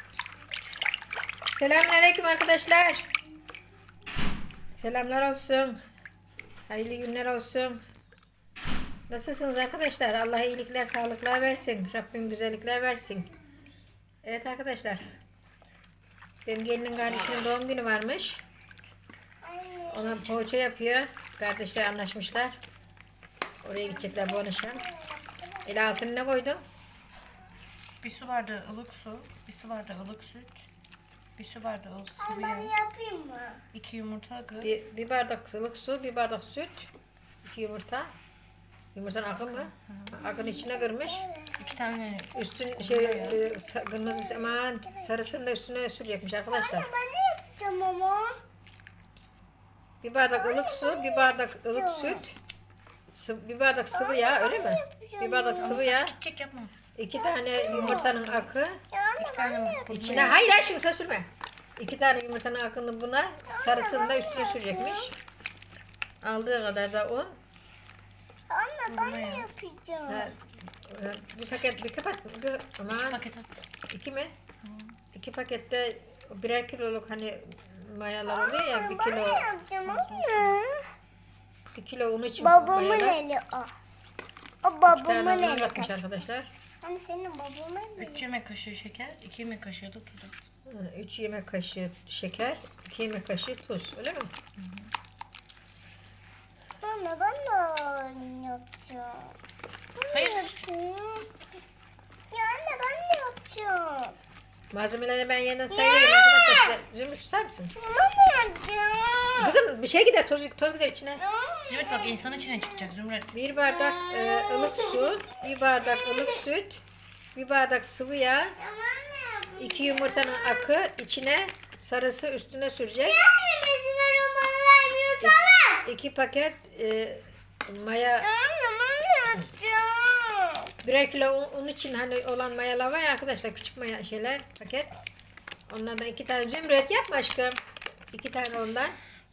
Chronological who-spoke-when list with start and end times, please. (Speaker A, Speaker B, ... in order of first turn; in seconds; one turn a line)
Speaker A: 1.4-3.1
Speaker A: 4.7-5.8
Speaker A: 6.7-7.8
Speaker A: 9.1-13.3
Speaker A: 14.2-15.0
Speaker A: 16.4-18.4
Speaker B: 19.4-20.4
Speaker A: 19.9-22.6
Speaker A: 23.6-24.8
Speaker B: 23.8-26.1
Speaker A: 25.6-26.6
Speaker C: 28.0-30.6
Speaker C: 31.4-32.7
Speaker B: 32.2-33.6
Speaker C: 33.7-34.8
Speaker A: 34.6-36.9
Speaker A: 37.4-38.1
Speaker A: 38.9-41.2
Speaker C: 39.6-40.1
Speaker B: 40.2-41.8
Speaker C: 41.6-43.4
Speaker A: 42.3-46.9
Speaker B: 43.2-45.1
Speaker B: 46.5-48.4
Speaker A: 50.0-52.3
Speaker B: 50.3-52.2
Speaker A: 53.1-56.1
Speaker B: 53.9-55.8
Speaker C: 55.6-56.7
Speaker A: 56.9-58.8
Speaker B: 57.1-58.1
Speaker B: 58.9-60.4
Speaker C: 59.2-60.4
Speaker A: 59.9-65.1
Speaker B: 63.5-65.1
Speaker A: 66.2-67.4
Speaker B: 68.5-70.3
Speaker C: 68.9-69.5
Speaker A: 70.1-73.2
Speaker C: 72.9-73.6
Speaker A: 73.9-74.3
Speaker C: 74.6-75.0
Speaker A: 75.1-79.5
Speaker B: 78.3-80.8
Speaker C: 79.8-80.5
Speaker A: 81.7-83.2
Speaker B: 82.4-83.7
Speaker B: 84.6-85.9
Speaker A: 84.8-86.5
Speaker B: 86.8-88.2
Speaker C: 88.0-90.3
Speaker A: 90.7-94.3
Speaker C: 94.6-94.9
Speaker B: 96.8-99.3
Speaker B: 100.0-101.3
Speaker C: 100.1-100.6
Speaker B: 102.3-104.2
Speaker A: 104.7-107.7
Speaker B: 105.7-106.8
Speaker B: 107.8-109.6
Speaker A: 109.4-111.2
Speaker B: 111.2-112.9
Speaker C: 111.7-113.3
Speaker A: 113.3-116.8
Speaker B: 113.6-116.4
Speaker A: 117.3-118.5
Speaker B: 118.6-120.8
Speaker A: 119.6-123.2
Speaker B: 123.0-125.8
Speaker A: 125.2-128.3
Speaker B: 128.2-130.7
Speaker A: 130.8-134.9
Speaker A: 135.7-137.6
Speaker A: 138.1-139.0